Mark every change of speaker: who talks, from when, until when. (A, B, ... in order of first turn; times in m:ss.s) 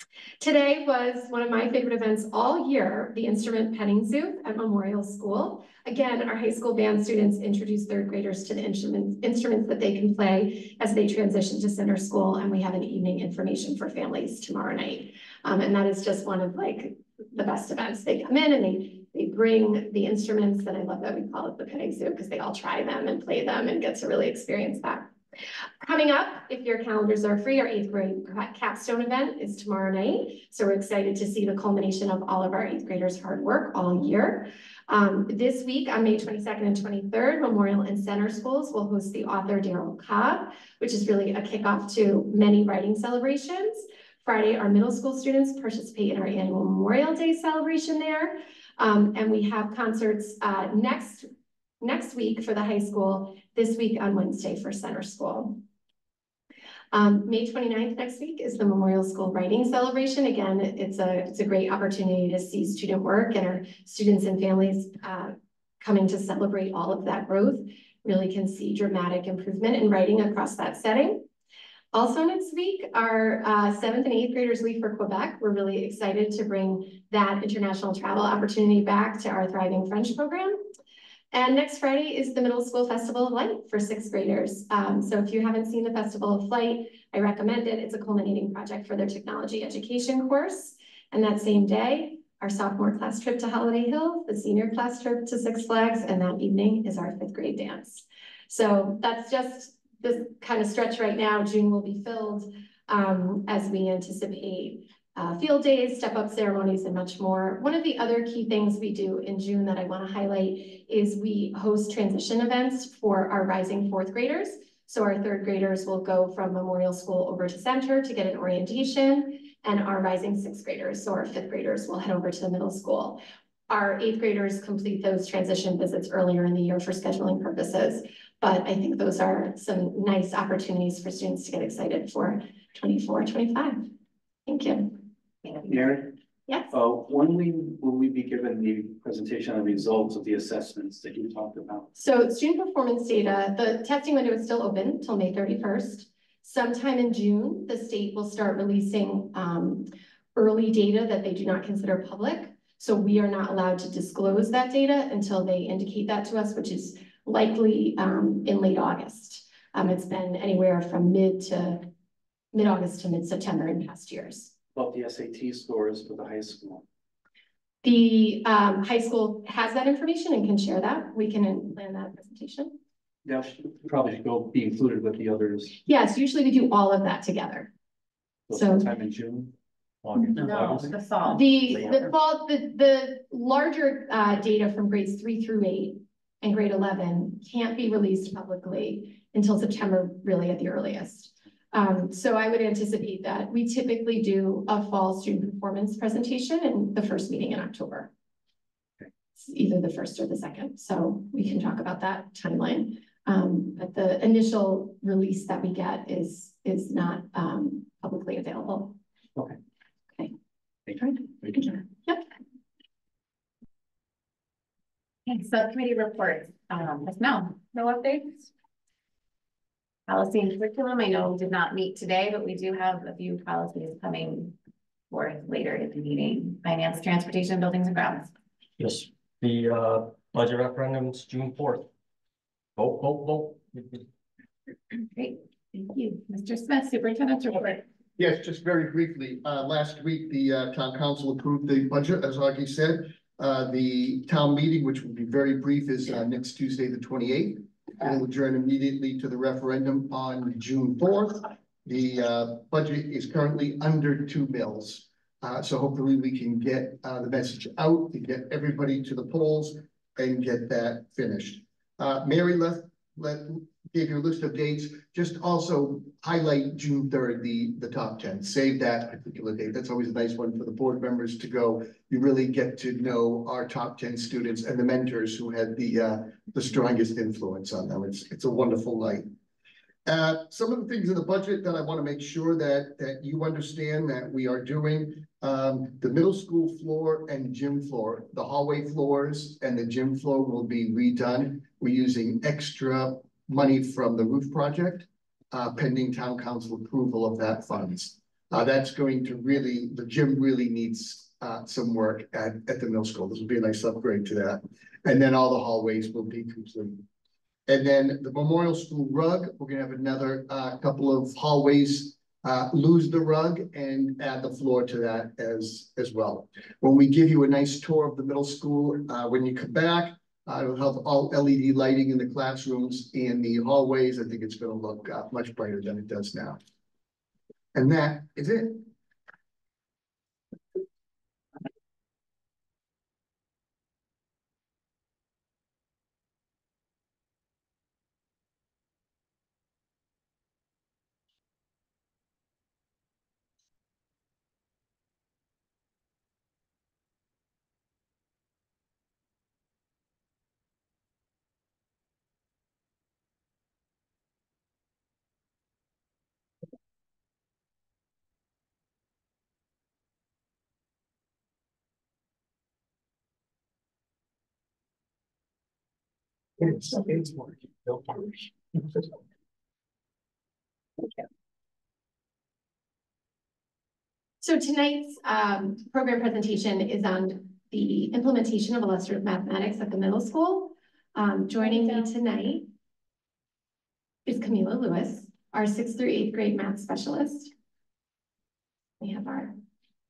0:00.4-0:25.1 A
0:25.8-0:51.3 A
0:51.8-0:55.6 A
0:56.9-1:11.2 A
1:11.9-1:20.6 A
1:21.3-2:13.9 A
2:14.5-2:15.0 A
2:15.6-2:16.2 B
2:16.5-2:16.7 A
2:16.7-2:21.9 B
2:22.0-2:41.9 A
2:42.5-2:44.5 A
2:44.8-2:46.8 B
2:47.8-2:52.8 A
2:53.2-2:55.8 B
2:55.9-2:57.7 A
2:58.5-3:01.0 B
2:58.5-2:58.9 A
3:00.4-3:01.8 C
3:01.3-3:18.1 A
3:01.7-3:02.0 B
3:19.4-3:29.0 A
3:30.9-3:31.8 B
3:31.0-3:32.2 A
3:35.3-3:38.2 C
3:40.1-3:44.6 C
3:45.1-3:48.3 C
3:48.8-3:51.9 D
3:52.8-3:54.0 D
3:55.0-3:57.8 C
3:58.2-4:39.3 E
4:40.1-5:07.0 E
5:07.7-5:26.6 E
5:27.7-5:28.9 E
6:14.4-6:22.7 A
6:24.3-6:27.5 A
6:29.0-6:29.6 A